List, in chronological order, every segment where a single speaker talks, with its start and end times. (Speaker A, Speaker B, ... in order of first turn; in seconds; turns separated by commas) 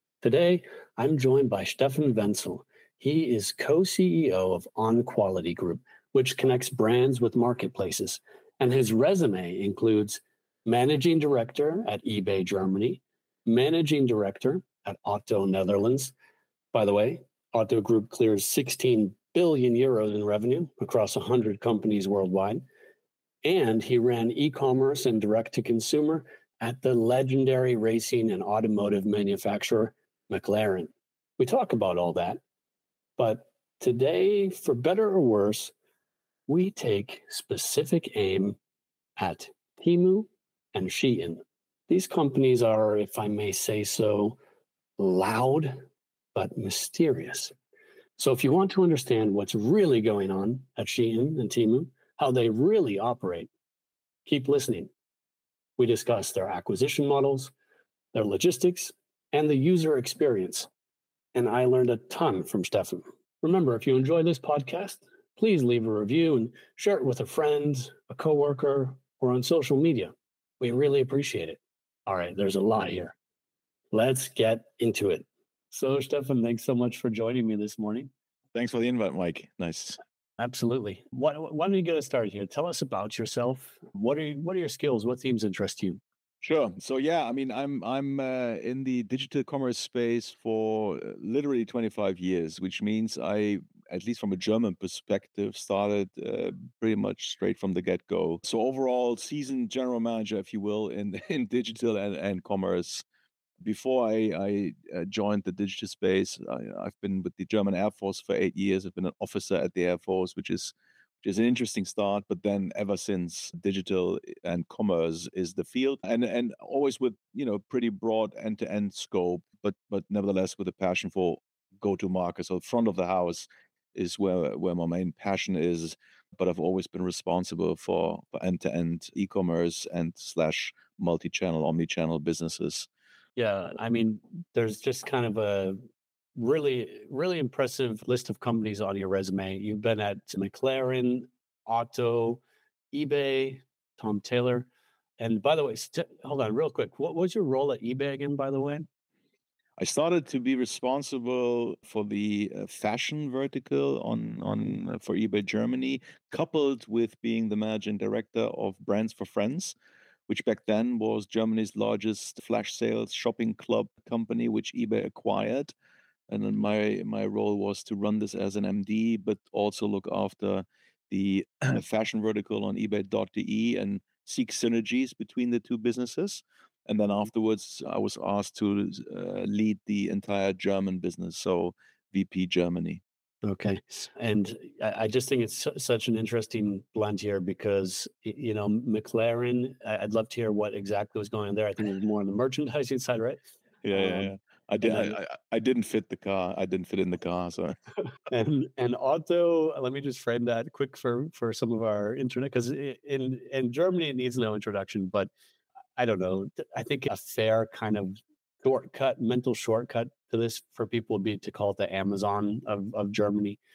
Speaker A: 0.2-16.1, Speaker A: 16.7-22.6, Speaker A: 23.4-32.4, Speaker A: 33.2-35.7, Speaker A: 36.5-38.6, Speaker A: 39.2-44.4, Speaker A: 45.0-47.5, Speaker A: 48.2-53.5, Speaker A: 54.2-54.9, Speaker A: 55.8-57.5, Speaker A: 58.1-60.7, Speaker A: 61.3-73.1, Speaker A: 73.9-78.1, Speaker B: 78.5-80.0, Speaker A: 80.4-86.0, Speaker B: 86.4-103.0, Speaker B: 103.6-132.9, Speaker A: 133.4-135.8, Speaker A: 136.4-142.4, Speaker A: 142.9-148.8, Speaker B: 149.8-159.7, Speaker B: 160.3-165.7, Speaker B: 166.3-183.0, Speaker A: 183.4-193.4, Speaker B: 193.8-197.8, Speaker A: 193.9-194.3, Speaker A: 194.8-195.2, Speaker A: 198.3-205.3, Speaker A: 206.0-213.6